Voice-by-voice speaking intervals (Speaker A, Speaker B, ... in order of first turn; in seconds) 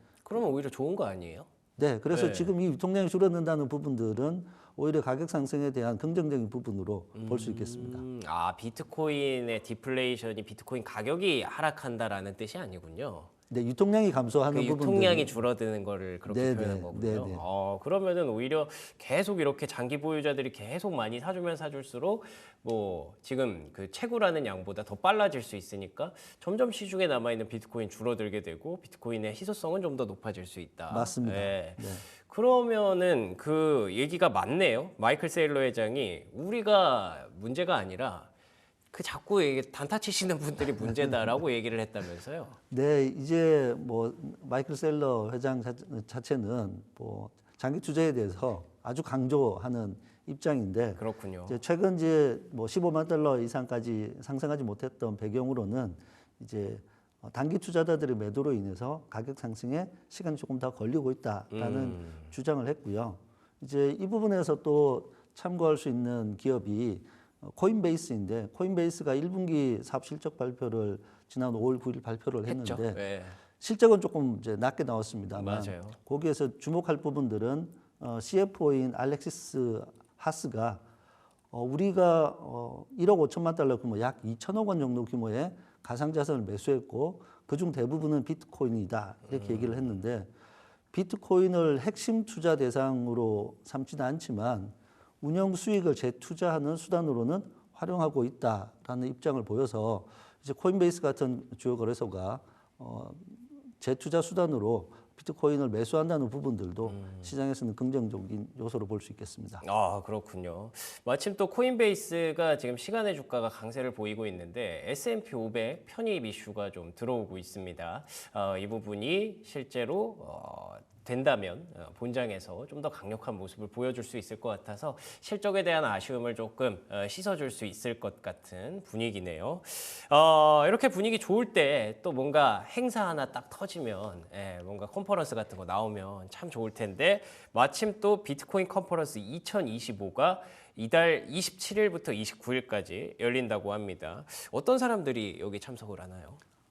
Speaker A: 0.2-1.5, 2.1-2.5, 7.1-13.3, 14.5-38.3, 38.9-42.6, 51.0-51.6, 61.5-62.3, 72.5-73.4, 75.3-76.0, 89.3-89.8, 106.9-107.3, 109.6-146.4
Speaker B: 1.8-8.0, 13.5-15.3, 16.3-17.4, 30.9-32.0, 40.8-41.4, 42.7-73.0, 73.6-80.8, 81.5-90.3, 90.9-109.6